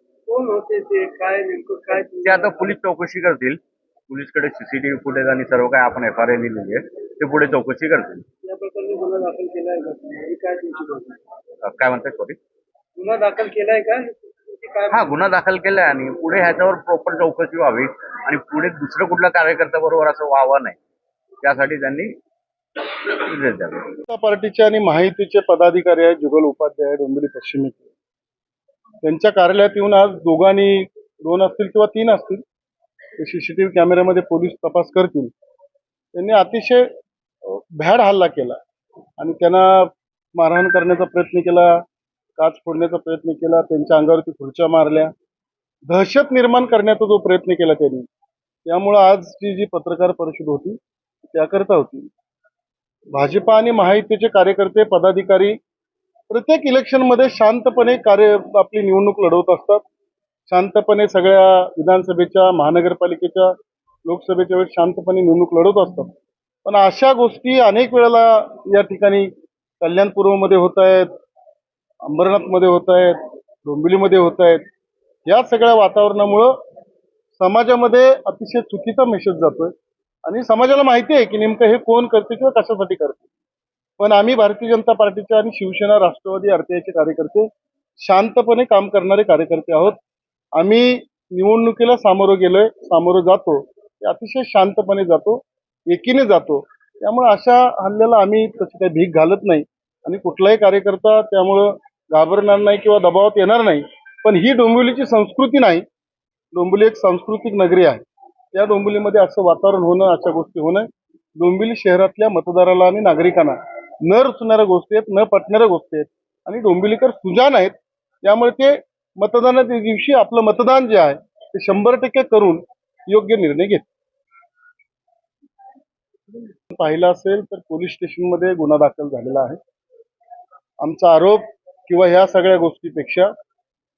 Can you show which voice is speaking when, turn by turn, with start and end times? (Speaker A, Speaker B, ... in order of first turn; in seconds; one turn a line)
Speaker A: 0.3-2.8
Speaker B: 2.2-8.2
Speaker A: 8.4-11.2
Speaker B: 11.6-12.4
Speaker A: 13.0-15.1
Speaker B: 14.9-20.8
Speaker B: 21.4-22.1
Speaker B: 22.8-24.0
Speaker C: 24.1-27.9
Speaker C: 29.0-32.4
Speaker C: 33.2-35.3
Speaker C: 36.1-36.9
Speaker C: 37.5-38.6
Speaker C: 39.2-41.8
Speaker C: 42.4-45.1
Speaker C: 45.9-48.1
Speaker C: 48.7-52.1
Speaker C: 53.1-55.6
Speaker C: 56.3-59.8
Speaker C: 60.5-66.1
Speaker C: 66.7-71.1
Speaker C: 72.1-74.7
Speaker C: 75.3-76.6
Speaker C: 77.3-79.7
Speaker C: 80.2-83.2
Speaker C: 84.0-87.5
Speaker C: 88.0-90.0
Speaker C: 90.6-105.8
Speaker C: 106.5-108.0
Speaker C: 108.5-123.8
Speaker C: 126.7-129.6
Speaker C: 130.8-133.3